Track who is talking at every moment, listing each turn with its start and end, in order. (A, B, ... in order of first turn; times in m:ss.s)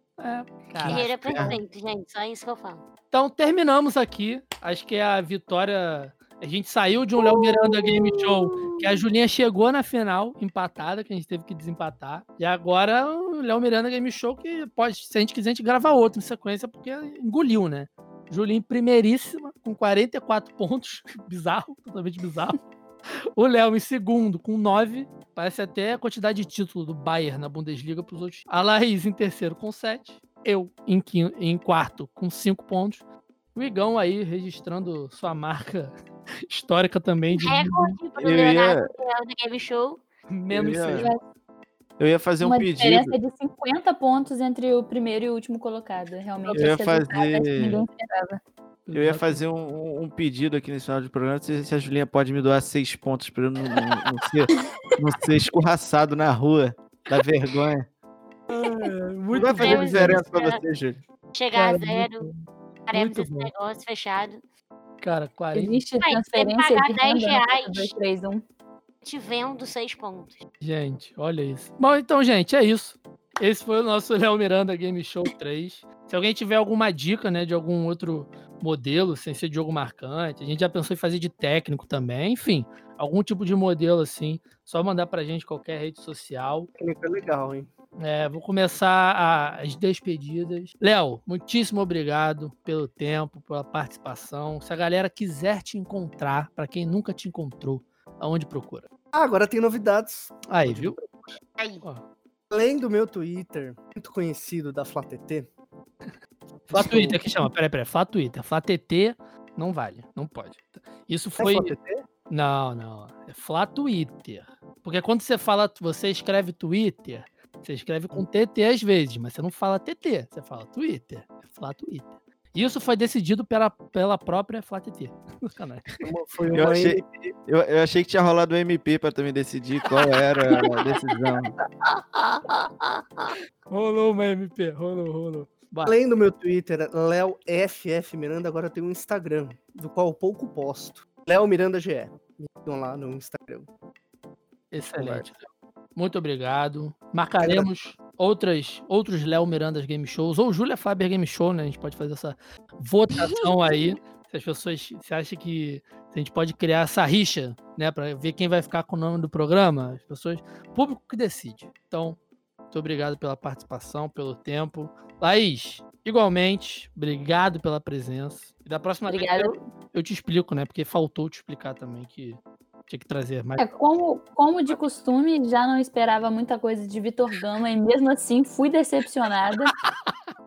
0:00.2-0:01.6 A
0:00.8-0:01.6 B
0:00.8-0:02.8 C
0:03.1-0:22.6 A
0:07.2-0:08.9 C
0:23.4-0:33.0 A
0:33.5-0:36.0 A
0:36.5-0:38.0 A
0:37.3-0:40.0 C
0:38.2-0:38.9 B
0:40.3-0:41.2 A
0:40.5-0:41.1 B
0:42.0-0:43.2 B
0:42.4-0:48.4 D
0:46.5-0:47.8 B
0:48.9-0:49.4 A
0:48.9-0:57.9 B
0:58.5-1:00.2 A
0:59.3-1:01.0 B
0:59.6-1:00.6 C
1:01.3-1:02.3 C
1:01.5-1:03.5 A
1:02.9-1:04.4 C
1:05.0-1:05.8 A
1:05.5-1:08.4 D
1:06.0-1:08.0 C
1:09.0-1:10.4 C
1:10.6-1:26.7 A
1:26.8-1:27.7 E
1:28.0-1:38.9 A
1:39.1-1:41.4 E
1:40.5-1:41.0 A
1:41.6-1:41.8 C
1:42.5-1:45.5 E
1:46.7-1:51.8 A
1:46.7-1:47.2 E
1:51.4-1:52.0 E
1:52.3-2:05.9 A
2:06.0-2:07.0 E
2:06.5-2:11.6 B
2:13.7-2:16.0 A
2:15.8-2:23.7 E
2:24.7-2:42.2 A
2:25.0-2:25.3 E
2:27.4-2:27.7 E
2:42.7-2:53.6 A
2:49.1-2:49.6 D
2:53.6-2:59.7 D